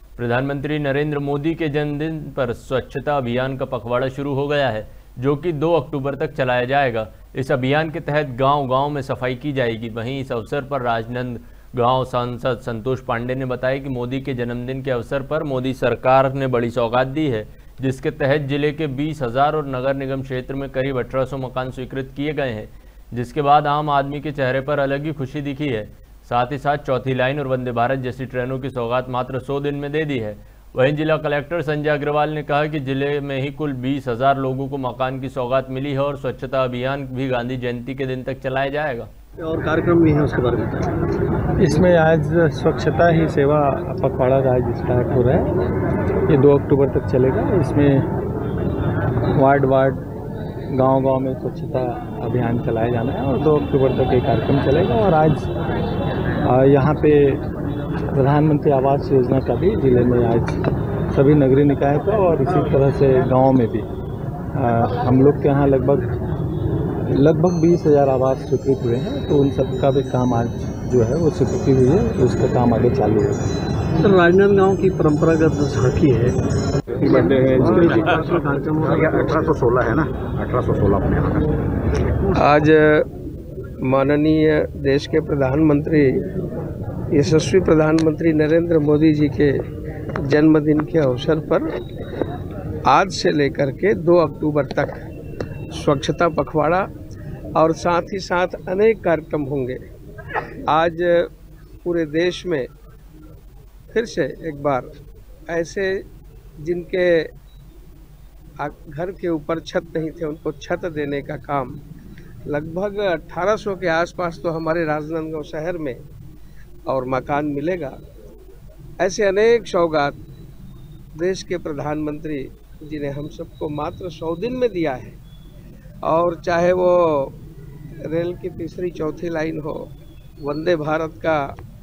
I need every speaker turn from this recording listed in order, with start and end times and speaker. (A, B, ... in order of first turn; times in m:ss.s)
0:00.2-0:39.1 A
0:39.4-0:40.9 B
0:41.6-0:45.5 C
0:46.3-0:48.0 C
0:49.4-0:50.0 C
0:50.7-0:55.5 C
0:56.4-0:57.4 C
0:58.1-1:00.6 C
1:01.1-1:03.9 C
1:04.6-1:06.1 C
1:07.1-1:13.4 C
1:14.0-1:16.4 B
1:17.0-1:19.4 B
1:17.5-1:18.2 D
1:18.8-1:21.5 D
1:22.4-1:23.0 E
1:23.8-1:26.1 E
1:27.1-1:29.5 E
1:30.2-1:31.7 E
1:32.9-1:35.0 E
1:35.8-1:36.9 E
1:37.6-1:39.8 E
1:40.7-1:41.3 E
1:41.8-1:42.7 E
1:43.9-1:44.9 E
1:45.5-1:46.0 E
1:46.6-1:47.3 E
1:48.6-1:51.8 E
1:52.5-1:56.0 E
1:56.9-1:57.9 E
1:59.0-2:00.1 E
2:01.2-2:05.2 E
2:06.0-2:07.3 E
2:08.1-2:09.8 E
2:10.4-2:11.4 E